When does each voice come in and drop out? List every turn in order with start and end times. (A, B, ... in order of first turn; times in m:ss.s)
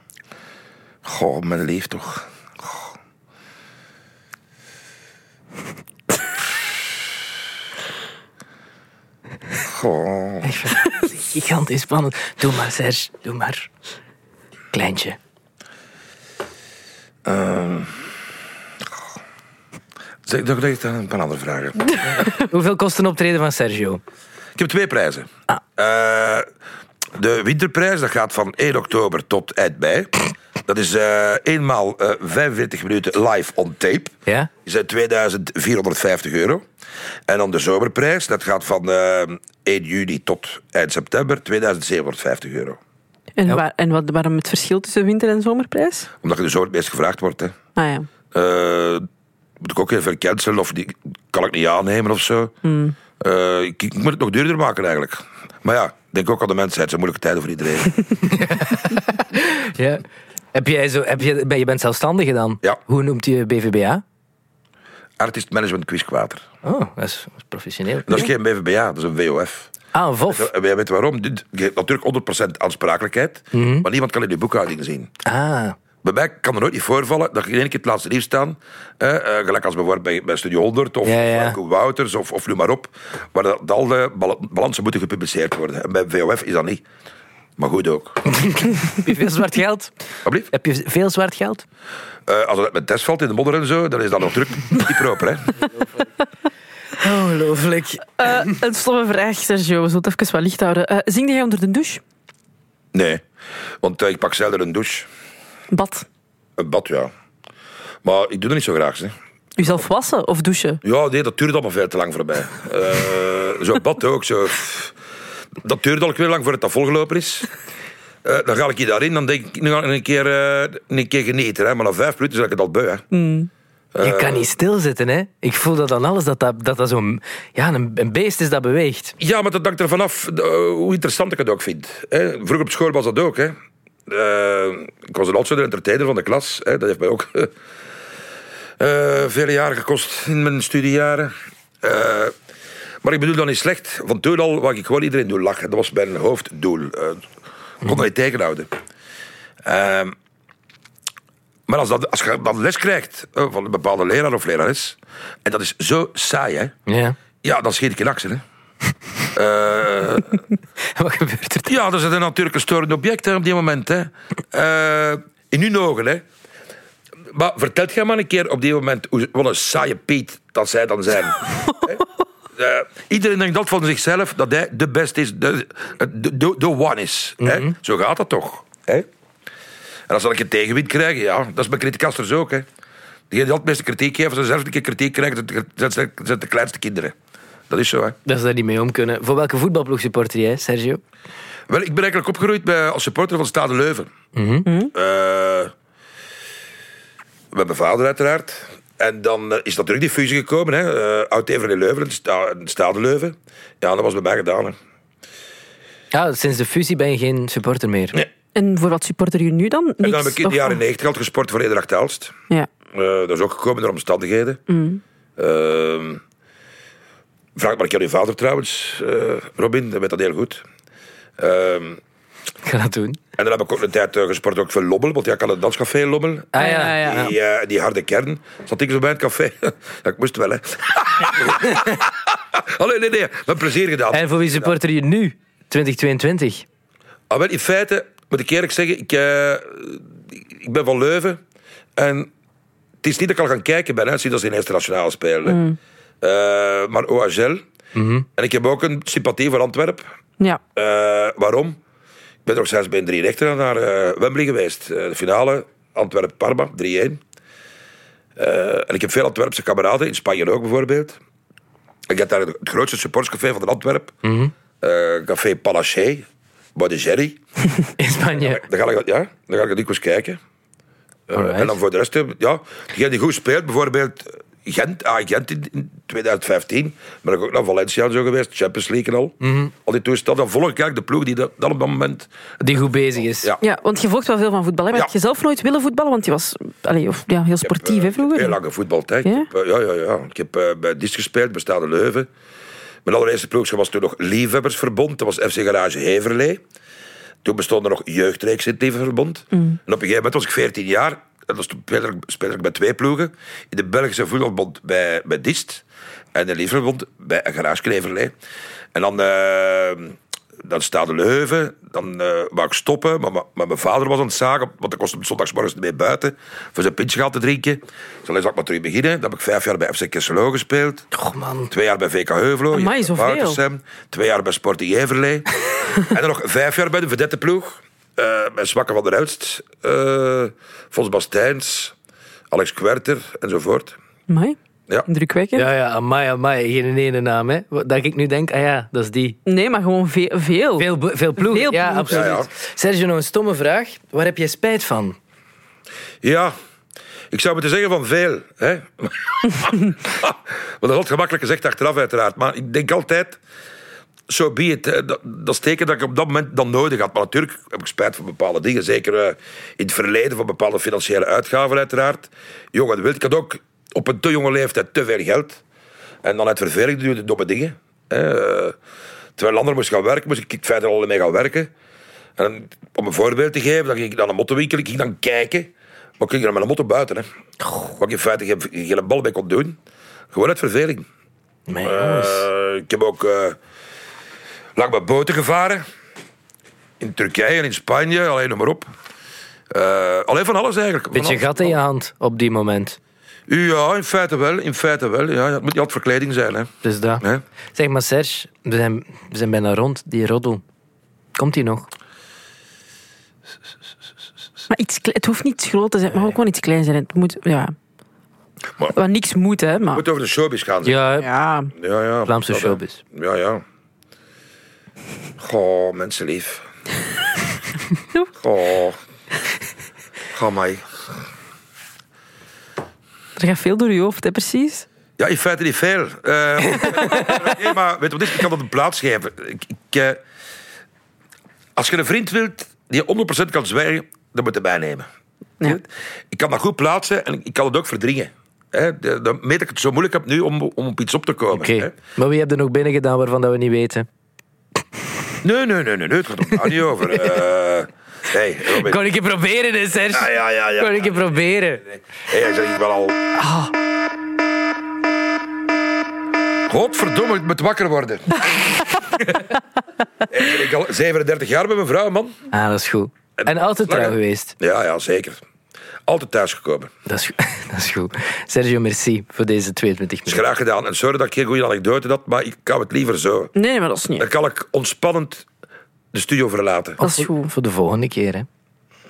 0:01.0-0:02.9 A
0:09.6-0:10.5 A
0:10.4-0:13.7 B
0:14.7-0:15.2 B
0:17.2-0:17.9 A
0:20.2-0:22.2 A
0:22.2-0:24.0 B
0:24.6-0:26.5 A
0:27.1-0:36.6 A
0:37.3-0:42.8 A
0:43.4-0:46.1 C
0:46.2-0:47.5 A
0:47.8-0:48.1 C
0:48.3-0:49.0 A
0:49.6-0:52.5 A
0:52.6-0:53.0 C
0:53.2-0:57.9 A
0:58.3-1:00.0 B
1:00.5-1:04.0 B
1:05.2-1:06.4 A
1:06.6-1:08.3 B
1:08.0-1:09.7 A
1:09.9-1:10.5 B
1:10.3-1:15.1 A
1:13.5-1:13.9 B
1:15.2-1:15.8 B
1:16.0-1:26.8 A
1:21.0-1:21.6 B
1:27.6-1:28.2 A
1:28.3-1:29.9 B
1:30.5-1:31.6 B
1:32.3-1:35.6 A
1:37.0-1:38.4 B
1:38.2-1:42.0 C
1:42.9-1:43.2 A
1:43.8-1:45.1 A
1:45.7-1:46.0 C
1:46.6-1:47.1 A
1:48.0-1:49.1 A
1:49.6-1:50.8 C
1:50.8-1:54.9 A
1:55.6-1:57.5 A
1:58.2-2:03.0 A
2:03.1-2:03.5 C
2:03.9-2:04.5 A
2:04.0-2:09.1 B
2:09.2-2:13.5 A
2:14.1-2:17.5 A
2:18.8-2:22.3 A
2:23.0-2:27.2 A
2:27.8-2:28.7 A
2:29.6-2:30.1 A
2:31.7-2:36.7 A
2:36.9-2:37.2 B
2:37.4-2:38.4 A
2:39.3-2:40.4 A
2:40.8-2:41.7 B
2:41.7-2:46.2 A
2:47.3-2:59.1 A
2:57.4-2:57.7 B
3:00.1-3:02.6 A
3:03.3-3:07.1 A
3:07.7-3:08.2 A
3:08.2-3:11.0 B
3:11.7-3:14.1 A
3:14.3-3:14.7 B
3:14.6-3:14.9 C
3:14.9-3:15.7 A
3:17.5-3:24.8 A
3:26.1-3:28.2 B
3:28.5-3:30.8 C
3:30.0-3:32.3 A
3:32.9-3:34.6 A
3:34.7-3:35.0 C
3:35.4-3:36.2 A
3:37.6-3:40.6 A
3:41.4-3:42.0 A
3:42.6-3:43.2 B
3:43.4-3:54.7 A
3:46.5-3:47.3 B
3:46.6-3:47.2 C
3:54.1-3:56.6 B
3:57.3-4:01.4 A
4:02.0-4:02.3 A
4:03.0-4:05.6 A
4:05.4-4:05.8 C
4:06.2-4:07.6 A
4:07.9-4:08.2 B
4:08.4-4:10.0 A
4:10.7-4:11.8 A
4:12.4-4:17.2 A
4:18.4-4:21.2 A
4:22.1-4:24.2 A
4:24.2-4:24.5 B
4:24.8-4:27.4 A
4:28.0-4:28.6 B
4:28.3-4:30.4 A
4:31.3-4:42.3 A
4:31.3-4:31.8 B
4:39.4-4:39.7 B
4:42.6-4:43.5 B
4:43.6-4:48.6 C
4:47.6-4:52.3 A
4:53.0-4:56.6 A
4:57.4-5:05.8 A
5:06.3-5:08.3 A
5:08.9-5:21.0 A
5:21.1-5:21.7 B
5:21.7-5:31.9 A
5:22.7-5:23.6 C
5:32.5-5:34.0 A
5:34.3-5:35.7 C
5:35.6-5:39.4 B
5:39.4-5:42.3 C
5:40.8-5:45.2 B
5:42.1-5:42.5 A
5:46.2-5:46.5 A
5:47.3-5:53.4 A
5:54.3-6:05.6 A
6:06.2-6:08.8 A
6:09.4-6:11.7 A
6:12.4-6:17.2 A
6:17.9-6:19.8 A
6:20.3-6:21.1 A
6:21.7-6:22.4 B
6:21.8-6:23.6 A
6:24.8-6:25.8 A
6:27.0-6:28.9 A
6:29.7-6:31.8 A
6:31.1-6:33.0 B
6:33.5-6:37.4 A
6:36.8-6:37.2 B
6:37.7-6:40.6 B
6:41.4-6:41.9 B
6:44.7-6:47.7 C
6:48.9-6:50.0 C
6:49.9-6:51.0 A
6:50.8-6:51.3 B
6:51.2-6:51.7 C
6:51.8-6:53.6 A
6:52.3-6:53.0 B
6:55.4-6:56.6 A
6:58.4-6:59.0 A
7:00.3-7:01.0 A
7:03.4-7:04.8 C
7:05.2-7:10.2 A
7:11.8-7:15.1 A
7:15.6-7:21.9 A
7:21.5-7:24.1 B
7:25.4-7:29.0 A
7:28.7-7:31.8 B
7:30.1-7:31.3 A
7:31.9-7:33.3 A
7:36.7-7:38.5 A
7:40.3-7:42.4 A
7:42.5-7:44.6 B
7:43.4-7:45.4 A
7:46.1-7:46.9 A
7:47.1-7:50.4 B
7:50.2-7:53.5 A
7:53.6-7:54.3 C
7:54.2-7:55.4 A
7:56.1-7:57.0 A
7:57.0-7:57.5 C
7:57.0-7:58.5 B